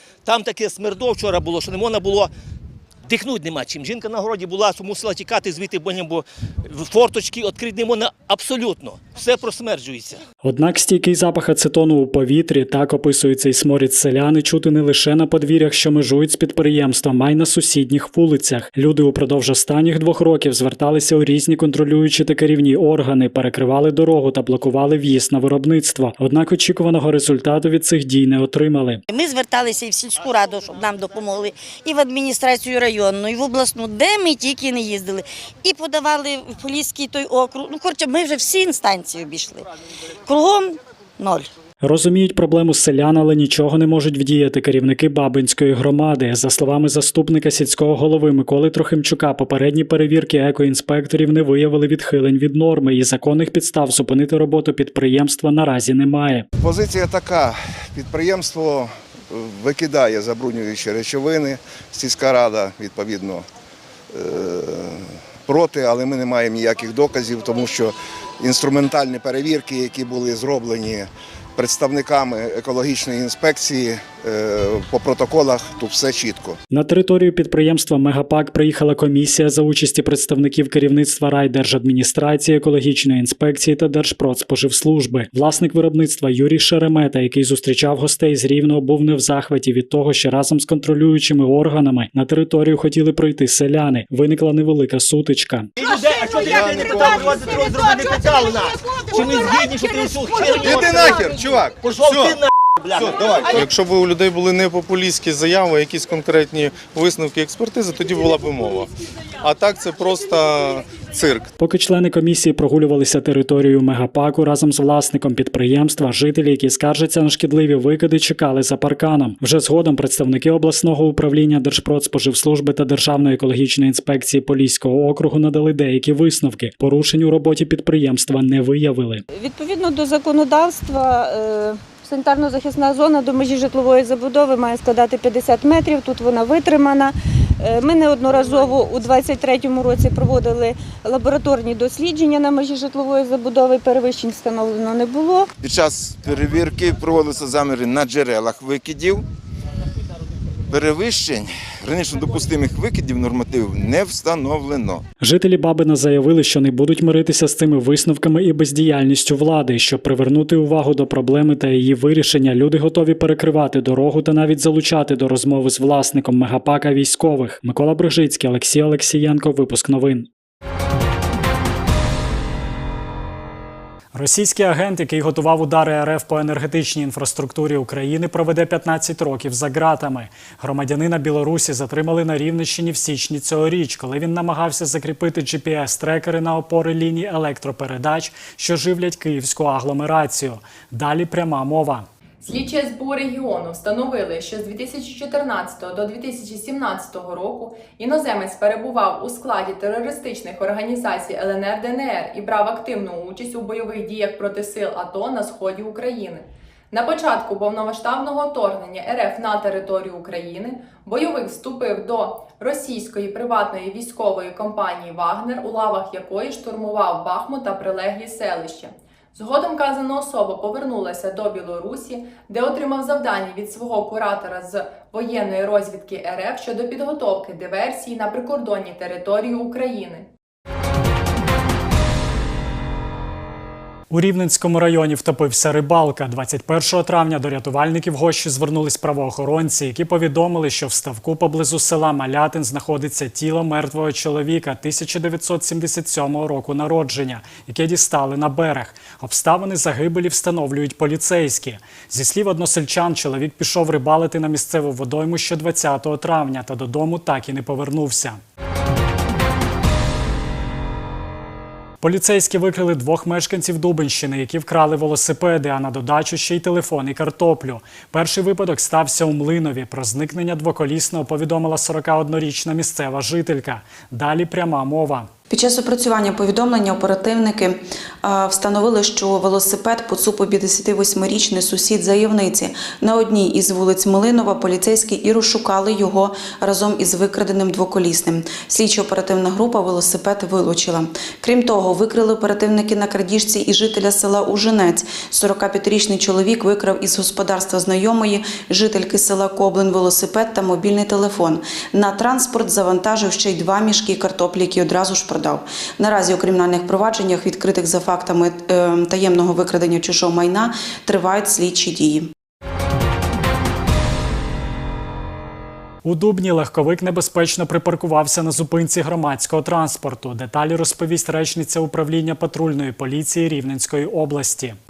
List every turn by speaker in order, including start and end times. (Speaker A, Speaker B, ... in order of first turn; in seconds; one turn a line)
Speaker A: 0.2-2.3
Speaker A: 3.1-10.2
Speaker B: 10.4-29.0
Speaker C: 29.1-39.6
Speaker C: 40.2-41.5
Speaker B: 41.8-56.5
Speaker D: 56.6-63.4
Speaker D: 64.1-76.6
Speaker B: 76.7-95.7
Speaker A: 95.8-103.6
Speaker E: 96.5-97.2
Speaker F: 96.8-97.4
Speaker F: 103.4-108.9
Speaker F: 109.4-111.5
Speaker B: 111.6-129.2
Speaker G: 129.3-145.5
Speaker E: 145.6-149.2
Speaker E: 150.7-155.0
Speaker B: 155.2-170.3
Speaker B: 174.1-192.1
Speaker H: 192.4-230.3
Speaker B: 234.1-258.4
Speaker B: 262.0-275.3
Speaker I: 275.5-312.3
Speaker B: 316.0-324.8